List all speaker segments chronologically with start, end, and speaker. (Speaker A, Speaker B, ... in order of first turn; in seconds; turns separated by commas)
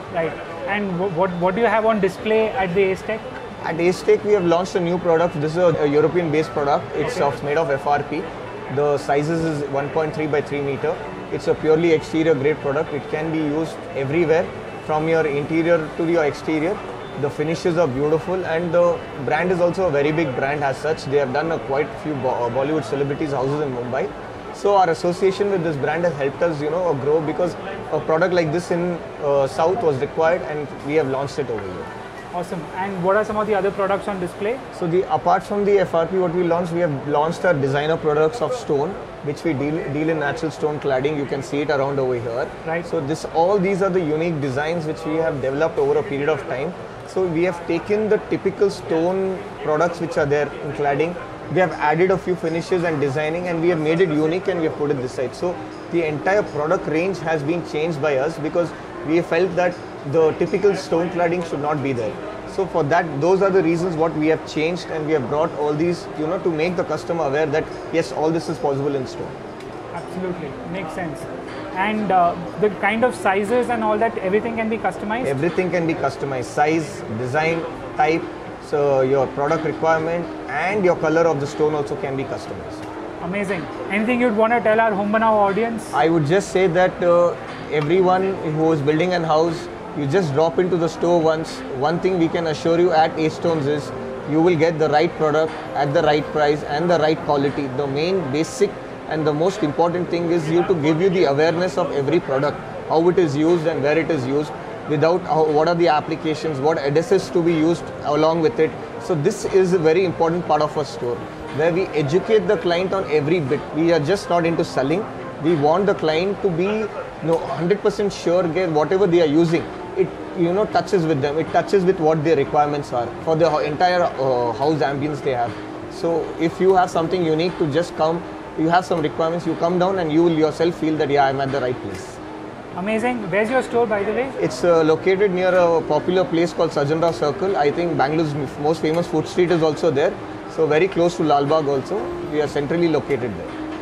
Speaker A: 0.1-3.2, Speaker B: 3.6-31.9, Speaker A: 32.3-34.6, Speaker B: 34.7-69.3, Speaker A: 69.9-75.4, Speaker B: 75.2-82.8, Speaker A: 83.2-86.0, Speaker B: 85.9-132.2, Speaker A: 132.7-134.3, Speaker B: 134.4-143.5